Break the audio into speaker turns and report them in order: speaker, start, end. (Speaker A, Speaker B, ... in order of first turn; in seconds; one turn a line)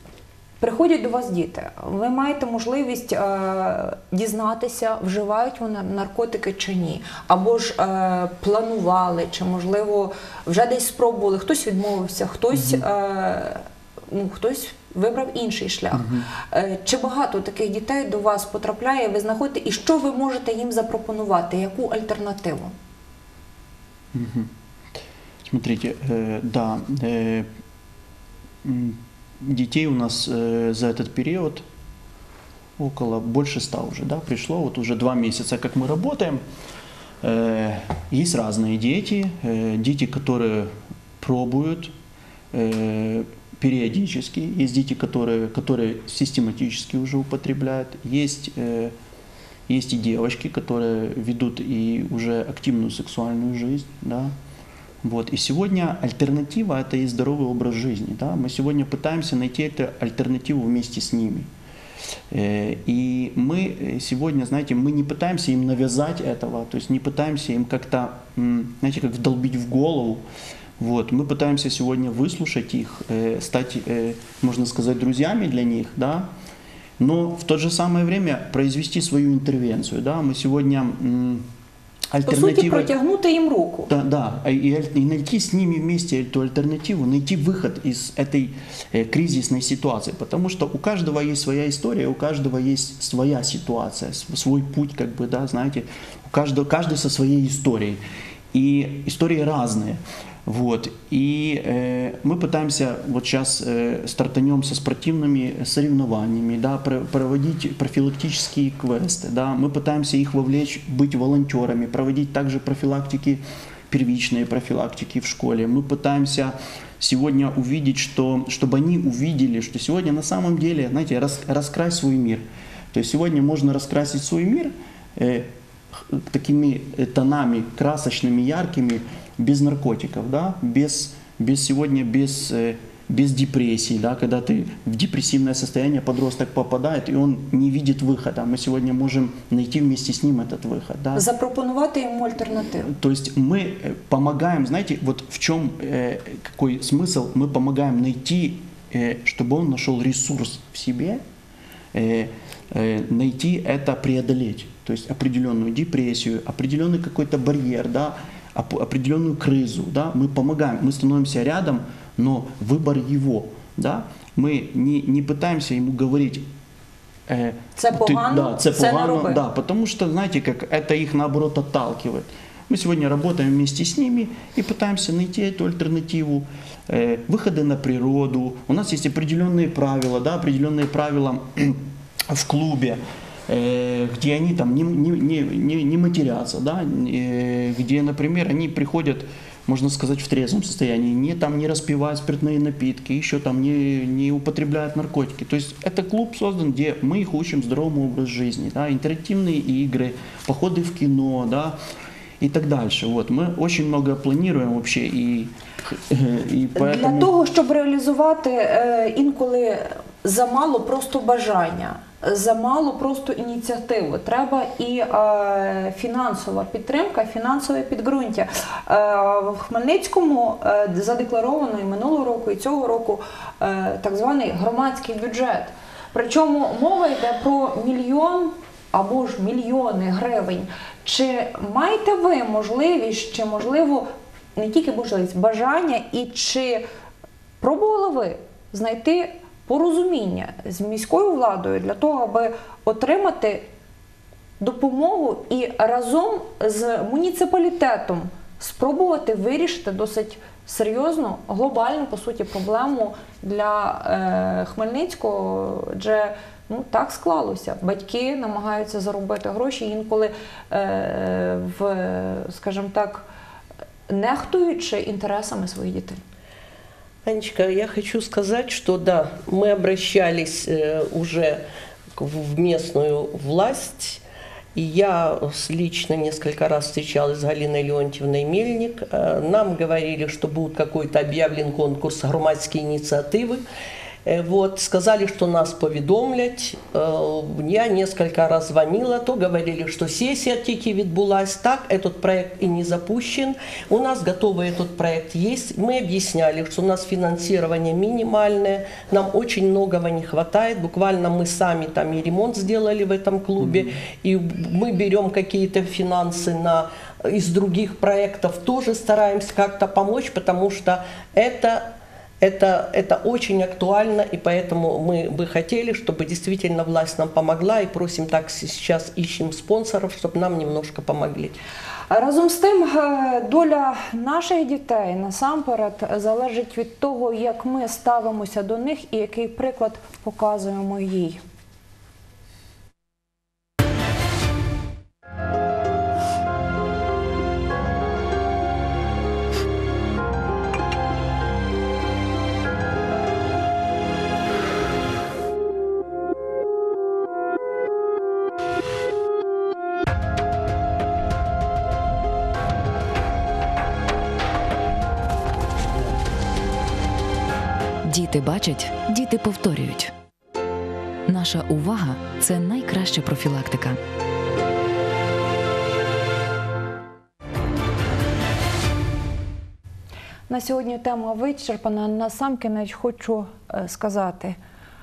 Speaker A: 0.6-22.7
Speaker B: 12.5-12.8
Speaker B: 15.9-16.3
Speaker B: 24.1-24.5
Speaker B: 25.4-27.5
Speaker B: 28.6-31.6
Speaker B: 32.8-36.4
Speaker B: 37.2-41.9
Speaker B: 42.5-48.9
Speaker B: 49.7-54.3
Speaker B: 55.0-61.5
Speaker B: 62.3-70.2
Speaker B: 70.8-76.3
Speaker B: 77.0-81.5
Speaker B: 82.1-82.9
Speaker A: 82.2-83.9
Speaker B: 83.9-98.0
Speaker B: 98.5-141.2
Speaker A: 141.1-142.9
Speaker B: 142.8-151.2
Speaker B: 151.9-166.5
Speaker B: 167.3-201.8
Speaker A: 167.8-169.4
Speaker B: 202.4-207.3
Speaker A: 206.7-236.8
Speaker A: 237.6-243.7
Speaker A: 244.6-263.2
Speaker A: 264.1-266.2
Speaker C: 267.2-271.6
Speaker C: 272.2-274.2
Speaker C: 274.7-283.6
Speaker C: 284.2-321.6
Speaker B: 303.6-303.9
Speaker A: 322.1-331.4
Speaker D: 358.0-360.1
Speaker D: 361.2-364.0
Speaker A: 370.5-374.6